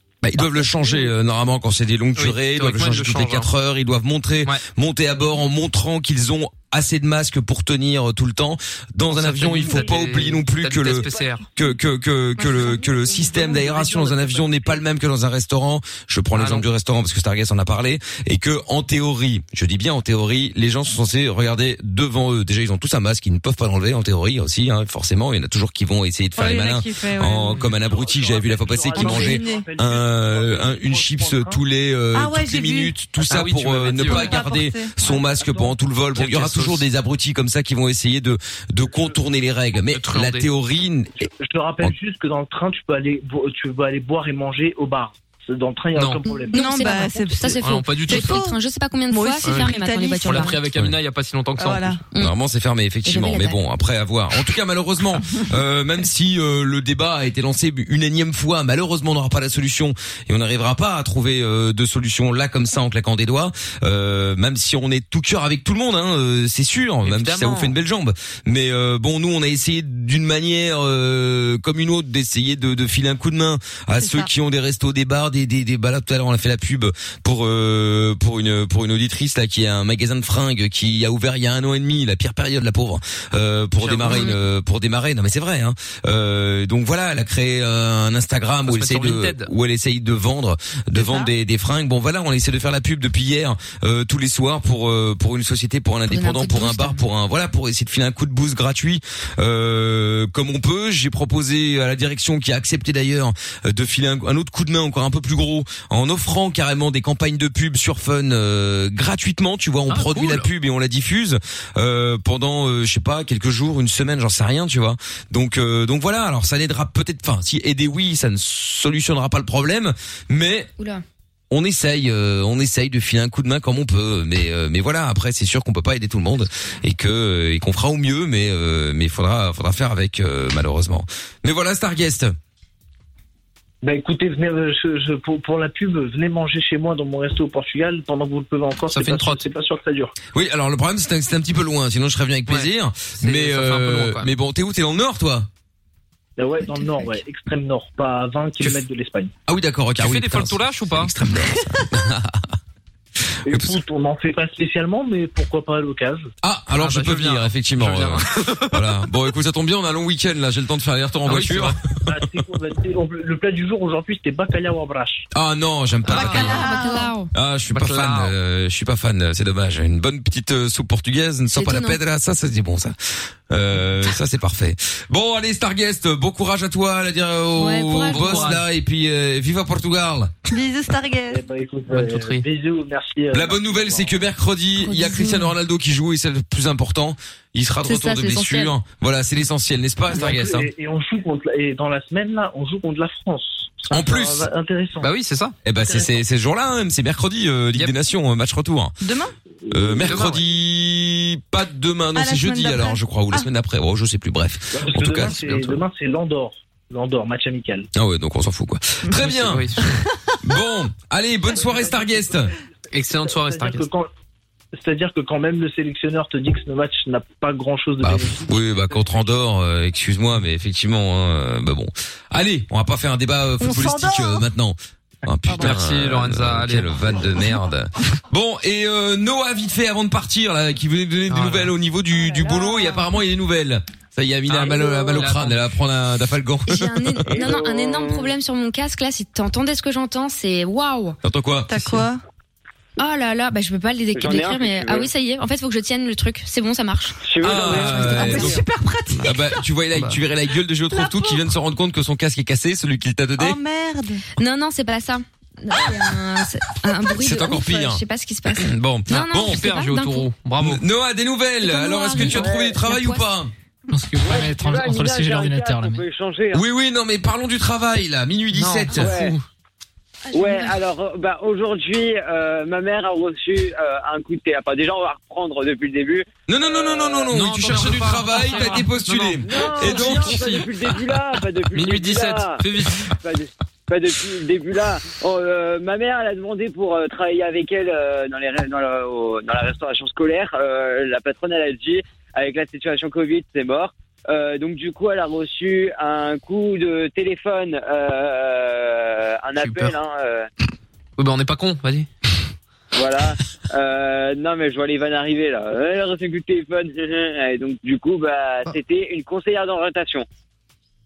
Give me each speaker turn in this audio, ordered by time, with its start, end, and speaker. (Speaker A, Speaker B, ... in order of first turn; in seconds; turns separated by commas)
Speaker A: 0.2-41.3, Speaker B: 0.4-1.1, Speaker C: 2.2-3.5, Speaker C: 9.1-11.4, Speaker B: 9.6-9.9, Speaker B: 11.0-11.7, Speaker B: 12.5-14.8, Speaker C: 16.3-16.7, Speaker D: 26.4-27.6, Speaker B: 27.7-31.6, Speaker D: 28.9-29.7, Speaker D: 32.1-33.0, Speaker C: 33.3-34.3, Speaker D: 33.9-34.9, Speaker B: 35.0-35.8, Speaker C: 36.1-36.9, Speaker B: 38.9-39.2, Speaker C: 39.9-40.5, Speaker B: 41.3-46.7, Speaker C: 46.0-46.2, Speaker D: 46.4-48.6, Speaker E: 46.5-50.6, Speaker C: 47.6-48.4, Speaker D: 49.1-50.6, Speaker C: 49.4-52.0, Speaker D: 51.6-52.0, Speaker A: 52.2-120.7, Speaker E: 53.0-53.6, Speaker C: 67.0-67.7, Speaker D: 74.0-74.3, Speaker C: 83.8-84.3, Speaker E: 84.1-84.4, Speaker C: 88.7-89.5, Speaker D: 91.0-91.3, Speaker E: 96.1-97.0, Speaker C: 109.9-110.5, Speaker E: 120.8-121.0, Speaker A: 121.5-132.3, Speaker B: 133.8-140.2, Speaker C: 138.9-139.4, Speaker A: 140.3-145.5, Speaker C: 142.5-144.3, Speaker B: 146.4-149.3, Speaker A: 149.5-152.5, Speaker C: 150.0-151.1, Speaker A: 153.5-153.8, Speaker B: 153.5-156.3, Speaker A: 156.4-162.2, Speaker C: 156.8-158.9, Speaker C: 161.3-161.8, Speaker B: 162.1-165.3, Speaker A: 165.3-166.7, Speaker C: 166.1-166.5, Speaker D: 166.1-167.1, Speaker E: 166.2-167.3, Speaker A: 167.3-172.9, Speaker C: 167.7-168.3, Speaker E: 171.5-172.0, Speaker A: 173.5-180.3, Speaker E: 177.6-178.5, Speaker C: 178.1-178.7, Speaker D: 180.5-181.4, Speaker B: 181.3-184.2, Speaker C: 181.9-182.4, Speaker A: 183.3-190.7, Speaker E: 184.8-185.5, Speaker E: 187.9-188.8, Speaker B: 190.1-195.1, Speaker A: 193.9-194.5, Speaker C: 195.0-195.6, Speaker A: 195.7-198.9, Speaker B: 195.8-196.2, Speaker D: 199.0-199.3, Speaker B: 199.7-200.2, Speaker A: 199.7-205.8, Speaker C: 200.0-200.4, Speaker D: 202.2-203.5, Speaker B: 204.7-207.9, Speaker A: 207.9-209.7, Speaker C: 209.3-209.9, Speaker D: 209.8-210.3, Speaker A: 210.4-212.5, Speaker B: 211.5-212.5, Speaker C: 212.9-213.9, Speaker B: 213.1-214.1, Speaker B: 214.8-219.3, Speaker A: 218.0-237.4, Speaker D: 223.6-224.5, Speaker D: 225.5-225.8, Speaker C: 225.6-227.2, Speaker C: 231.3-231.7, Speaker C: 234.5-235.7, Speaker E: 236.7-241.2, Speaker F: 237.3-238.3, Speaker A: 241.2-242.0, Speaker D: 241.7-242.2, Speaker E: 243.0-247.2, Speaker F: 244.2-245.1, Speaker F: 247.2-248.6, Speaker A: 247.4-248.6, Speaker D: 247.6-249.6, Speaker E: 247.8-248.6, Speaker A: 249.2-253.6, Speaker D: 250.9-251.5, Speaker D: 253.4-254.2, Speaker E: 254.4-260.3, Speaker A: 257.2-258.0, Speaker A: 258.6-259.6, Speaker C: 259.1-260.8, Speaker A: 260.6-263.5, Speaker E: 261.6-263.2, Speaker F: 262.4-262.8, Speaker G: 263.9-266.0, Speaker F: 264.2-266.6, Speaker A: 266.5-269.2, Speaker C: 268.5-269.4, Speaker F: 268.9-269.4, Speaker E: 270.3-270.8, Speaker F: 270.3-277.3, Speaker A: 276.5-280.6, Speaker C: 277.3-280.7, Speaker F: 279.4-282.6, Speaker C: 281.7-283.1, Speaker F: 283.2-300.5, Speaker C: 299.6-300.0, Speaker C: 301.2-302.1, Speaker F: 302.9-310.3